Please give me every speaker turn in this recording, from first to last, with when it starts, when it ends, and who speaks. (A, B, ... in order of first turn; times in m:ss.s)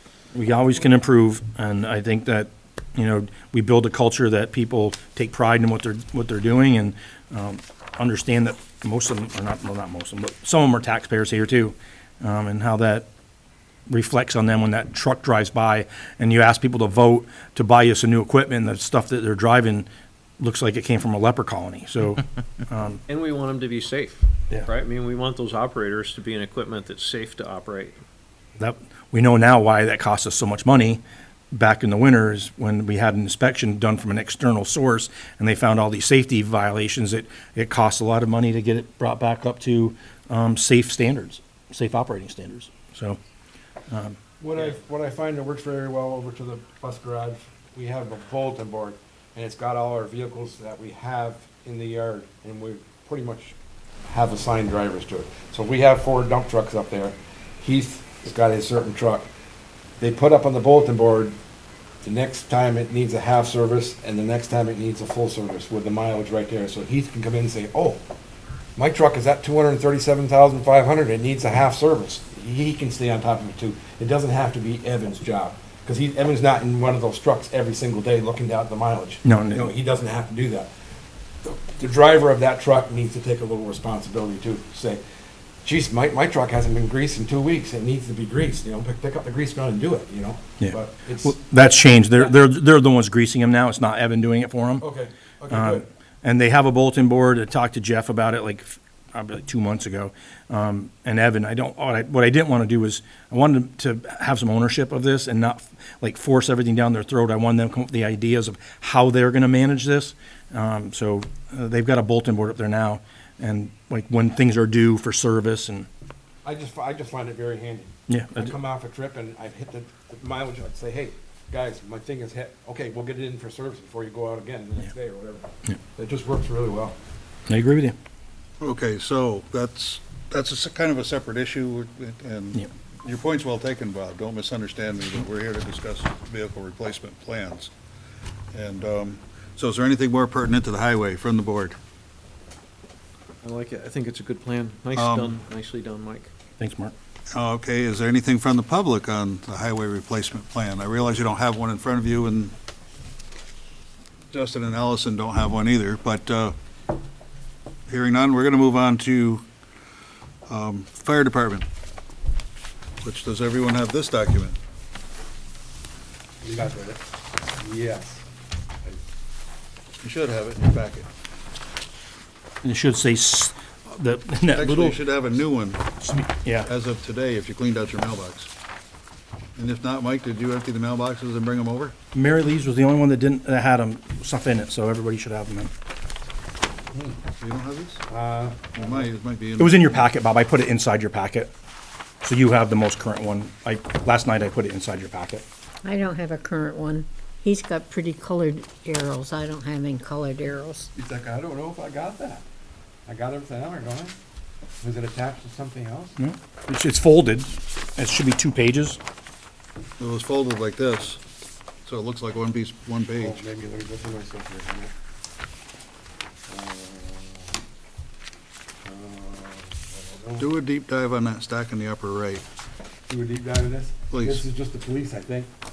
0:00.3-0:13.1 A
0:13.9-0:19.9 A
0:20.4-0:23.0 A
0:23.1-0:28.0 B
0:28.6-0:43.2 A
0:43.9-0:44.2 A
0:44.4-0:53.6 C
0:54.1-0:59.3 C
1:00.0-1:01.4 C
1:02.0-1:08.0 C
1:08.8-1:20.7 C
1:19.2-1:19.7 A
1:21.4-1:25.0 C
1:25.6-1:31.4 C
1:30.6-1:34.8 A
1:34.8-1:35.9 C
1:35.5-1:55.9 A
1:56.4-2:07.0 C
1:58.1-1:58.5 A
2:07.5-2:07.9 A
2:08.6-2:17.7 D
2:18.5-2:21.8 D
2:23.4-2:26.3 B
2:24.9-2:25.3 D
2:26.6-2:26.9 A
2:27.3-2:32.5 D
2:34.3-2:36.6 D
2:37.9-2:39.4 D
2:40.5-2:41.6 D
2:43.0-2:44.6 D
2:46.4-2:47.0 C
2:47.6-2:48.2 C
2:50.0-2:51.1 D
2:52.6-2:55.0 A
2:54.5-2:55.8 D
2:56.0-2:56.7 A
2:56.6-2:58.5 D
2:59.6-3:01.9 D
3:02.1-3:05.7 A
3:07.4-3:08.0 D
3:08.1-3:09.1 C
3:08.7-3:09.8 D
3:09.6-3:11.5 A
3:12.2-3:15.4 A
3:15.8-3:20.9 E
3:21.0-3:22.4 C
3:23.0-3:24.2 C
3:24.8-3:26.2 C
3:26.2-3:29.0 A
3:30.0-3:31.2 D
3:31.8-3:33.4 D
3:33.2-3:34.9 C
3:36.5-3:37.6 C
3:38.8-3:40.4 C
3:40.4-3:42.4 D
3:43.1-3:45.5 C
3:44.1-3:44.4 D